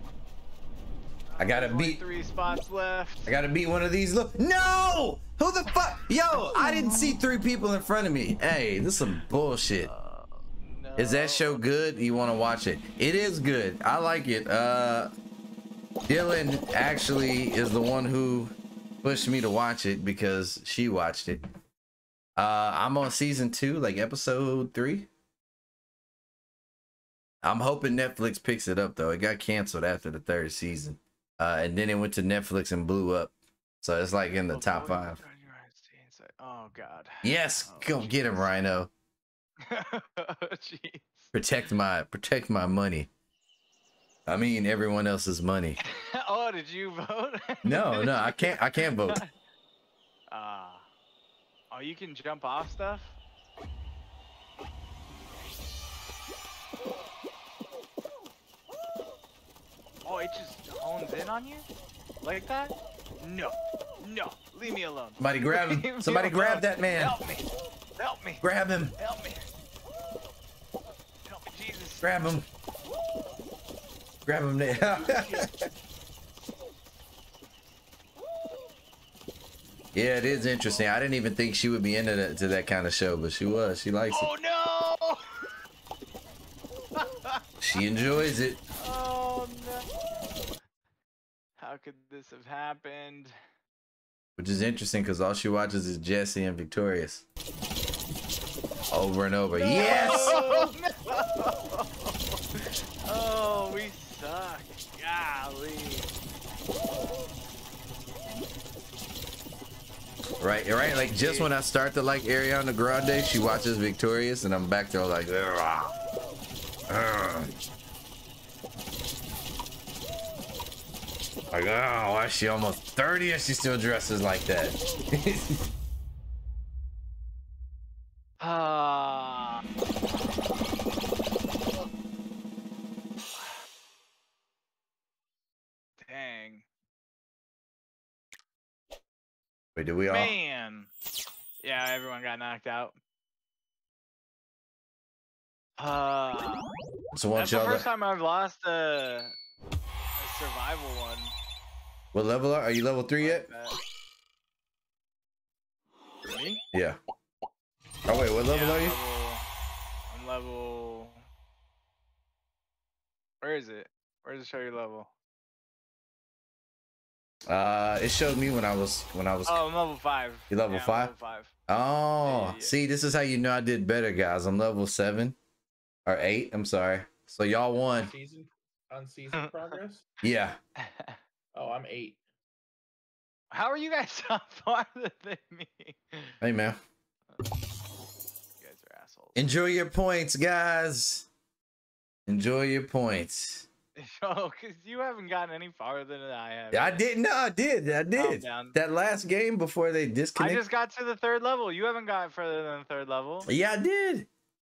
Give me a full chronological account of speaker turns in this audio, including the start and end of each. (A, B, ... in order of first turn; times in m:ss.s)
0:01.3-0:03.3 A
0:01.4-0:02.0 B
0:03.2-0:09.9 B
0:06.5-0:06.9 A
0:09.8-0:11.6 A
0:11.0-0:15.1 B
0:16.1-0:21.4 B
0:22.4-0:25.1 B
0:27.4-0:35.2 B
0:34.5-0:38.6 A
0:37.2-0:38.9 B
0:39.6-0:41.3 A
0:41.3-0:43.1 B
0:44.3-0:45.8 B
0:45.8-0:49.3 A
0:47.6-0:49.2 B
0:50.3-0:50.8 A
0:51.7-0:53.2 A
1:00.0-1:01.7 A
1:02.2-1:07.5 A
1:05.2-1:07.1 B
1:08.0-1:09.5 A
1:08.4-1:08.9 B
1:11.2-1:12.1 A
1:12.0-1:12.4 B
1:14.2-1:15.5 B
1:14.8-1:15.5 C
1:19.9-1:24.3 B
1:20.2-1:20.9 A
1:24.1-1:25.3 A
1:27.0-1:27.9 A
1:27.6-1:28.6 B
1:28.7-1:30.0 A
1:31.6-1:33.3 A
1:34.4-1:37.2 B
1:38.9-1:40.4 B
1:39.6-1:46.1 A
1:39.8-1:40.4 C
1:50.4-1:55.9 B
1:50.9-1:51.5 A
1:56.9-1:57.5 B
2:01.5-2:05.6 B
2:08.4-2:10.7 A
2:16.0-2:16.6 A
2:19.7-2:20.3 B
2:20.1-2:20.9 A
2:21.6-2:23.0 A
2:25.8-2:26.7 A
2:27.1-2:27.9 B
2:27.3-2:29.3 A
2:30.2-2:31.4 A
2:32.1-2:33.5 B
2:33.2-2:33.8 A
2:36.3-2:36.6 A
2:36.7-2:37.0 B
2:38.0-2:39.0 B
2:38.5-2:39.4 A
2:40.1-2:41.2 A
2:43.4-2:45.1 A
2:47.5-2:49.6 B
2:49.4-2:51.5 A
2:50.5-2:51.1 B
2:51.7-2:55.4 B
2:52.2-2:52.7 A
2:56.0-2:58.1 B
2:58.0-3:00.1 C
2:59.3-2:59.8 A
3:00.2-3:00.6 B
3:00.8-3:01.2 A
3:01.5-3:02.2 C
3:03.5-3:06.4 A
3:06.4-3:06.8 B
3:08.6-3:09.5 A
3:09.3-3:11.3 B
3:12.3-3:13.7 B
3:14.0-3:17.0 A
3:16.7-3:20.6 B
3:18.1-3:18.8 A
3:20.4-3:23.5 A
3:23.4-3:24.3 B